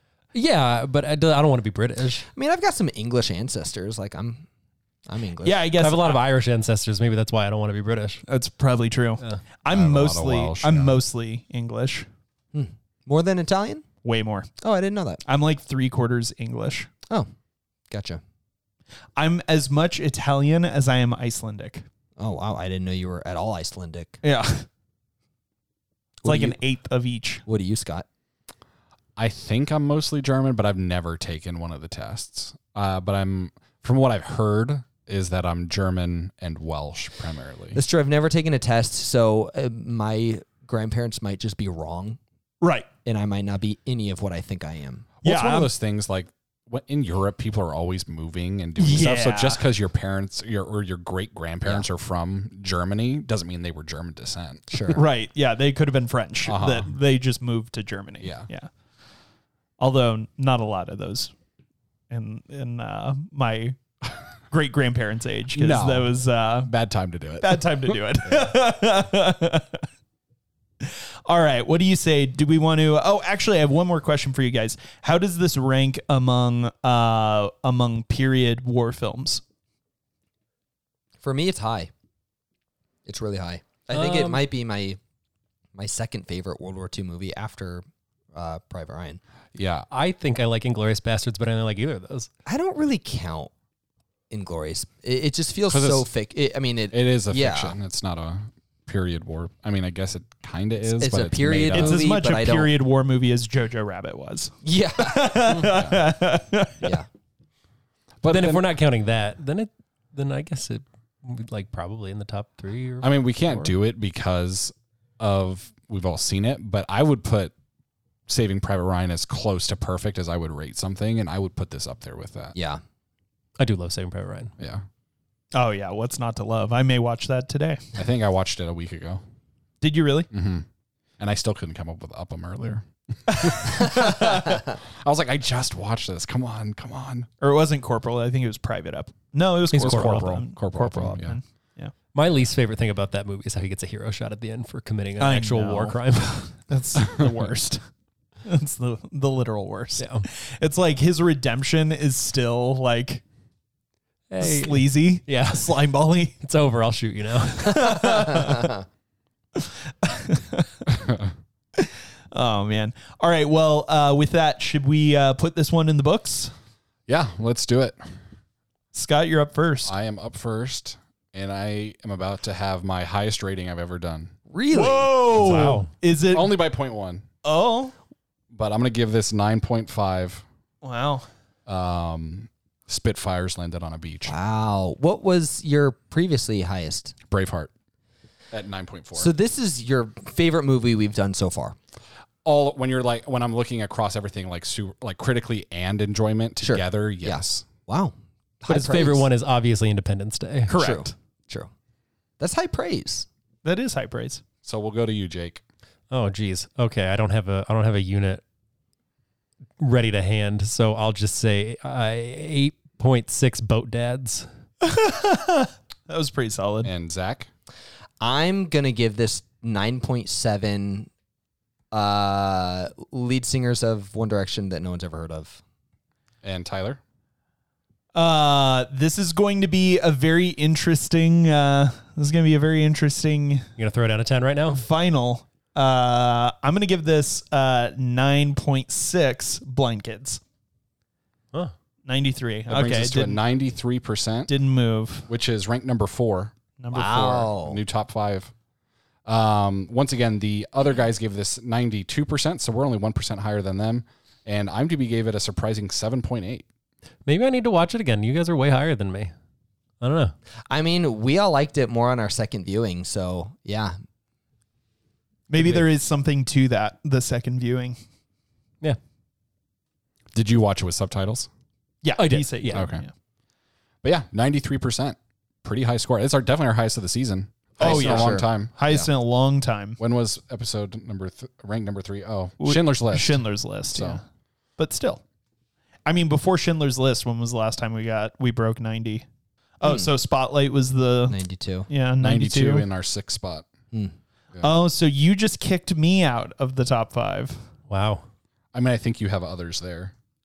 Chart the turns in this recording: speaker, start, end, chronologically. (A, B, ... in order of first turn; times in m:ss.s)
0:00.3-0:02.2 A
0:02.3-0:04.4 B
0:05.1-0:05.7 B
0:05.4-0:06.2 C
0:05.8-0:08.2 A
0:08.3-0:12.1 C
0:09.7-0:11.0 D
0:12.5-0:13.8 B
0:14.0-0:14.5 C
0:14.6-0:15.2 B
0:15.2-0:16.9 C
0:17.9-0:18.2 B
0:19.2-0:21.8 C
0:22.2-0:24.2 B
0:24.2-0:24.7 C
0:26.2-0:26.6 B
0:26.2-0:27.4 C
0:27.4-0:28.0 B
0:29.2-0:37.8 D
0:37.7-0:42.2 B
0:42.6-0:42.9 C
0:43.0-0:45.1 B
0:45.2-0:54.6 D
0:45.2-0:45.7 C
0:48.8-0:49.6 C
0:54.7-0:55.0 B
0:54.9-0:58.7 C
0:56.4-0:56.9 D
0:58.2-0:58.5 D
0:59.8-1:01.3 C
1:02.1-1:03.8 C
1:04.5-1:06.7 C
1:05.5-1:07.6 D
1:07.4-1:09.8 C
1:10.8-1:19.4 C
1:21.2-1:21.9 B
1:23.0-1:25.0 B
1:23.9-1:24.4 A
1:25.7-1:29.2 B
1:29.5-1:29.8 D
1:29.9-1:32.3 A
1:32.4-1:33.5 B
1:34.3-1:37.7 B
1:35.7-1:36.1 D
1:36.9-1:42.1 D
1:41.0-1:42.7 B
1:41.7-1:47.0 C
1:44.6-1:45.5 B
1:45.6-1:46.0 D
1:48.2-1:48.6 D
1:48.3-1:53.7 A
1:53.0-1:57.5 D
1:58.3-2:02.6 D
2:02.5-2:02.8 B
2:03.6-2:04.5 A
2:05.5-2:07.9 C
2:07.9-2:09.2 D
2:09.8-2:10.3 C
2:10.3-2:10.6 D
2:11.2-2:17.3 D
2:13.3-2:14.6 C
2:17.4-2:21.9 C
2:19.7-2:21.4 D
2:19.7-2:20.3 A
2:22.1-2:26.5 A
2:25.2-2:27.8 C
2:28.4-2:33.2 C
2:30.0-2:30.2 A
2:34.3-2:35.8 A
2:34.4-2:36.4 C
2:36.4-2:38.5 A
2:37.6-2:38.7 C
2:39.5-2:40.7 C
2:41.8-2:46.5 C
2:47.1-2:48.0 D
2:48.9-2:49.9 C
2:49.8-2:54.3 D
2:54.5-2:55.4 B
2:54.7-2:56.6 C
2:55.3-2:55.9 A
2:56.3-2:57.2 D
2:57.4-2:57.9 C
2:58.5-3:00.4 D
3:00.8-3:01.3 C
3:01.7-3:04.3 D
3:04.3-3:07.1 B
3:07.3-3:07.7 D
3:08.5-3:09.3 D
3:09.2-3:11.8 B
3:12.4-3:17.6 D
3:16.6-3:19.3 B
3:18.7-3:20.7 A
3:20.7-3:21.7 B
3:20.7-3:21.1 C
3:22.4-3:23.3 B
3:23.6-3:24.4 C
3:24.6-3:25.6 D
3:26.1-3:28.4 A
3:29.8-3:34.5 A
3:34.8-3:36.9 C
3:36.8-3:37.5 D
3:38.2-3:41.1 B
3:41.9-3:45.6 B
3:46.4-3:47.0 D
3:48.1-3:53.7 C
3:53.8-3:54.8 A
3:54.7-4:00.4 C
4:02.0-4:03.4 C
4:02.7-4:04.5 D
4:04.5-4:05.3 C
4:05.3-4:06.5 D
4:06.8-4:07.5 C
4:06.9-4:07.8 B
4:07.6-4:08.5 D
4:09.2-4:16.6 D
4:17.2-4:19.3 A
4:20.0-4:20.3 A
4:20.7-4:24.0 B
4:25.5-4:28.0 C
4:25.6-4:25.8 A
4:30.3-4:31.5 D
4:32.0-4:33.1 C
4:32.2-4:32.9 A
4:32.7-4:33.0 D
4:34.0-4:38.7 D
4:37.8-4:39.1 B
4:37.8-4:40.0 C
4:40.0-4:44.2 D
4:42.6-4:44.2 C
4:44.8-4:45.2 C
4:46.0-4:49.2 C
4:49.8-4:51.4 C
4:49.8-4:50.1 B
4:51.3-4:51.9 B
4:51.9-4:52.8 C
4:52.2-4:53.7 D
4:54.6-4:57.6 C
4:57.9-4:58.2 A
4:58.7-5:00.1 D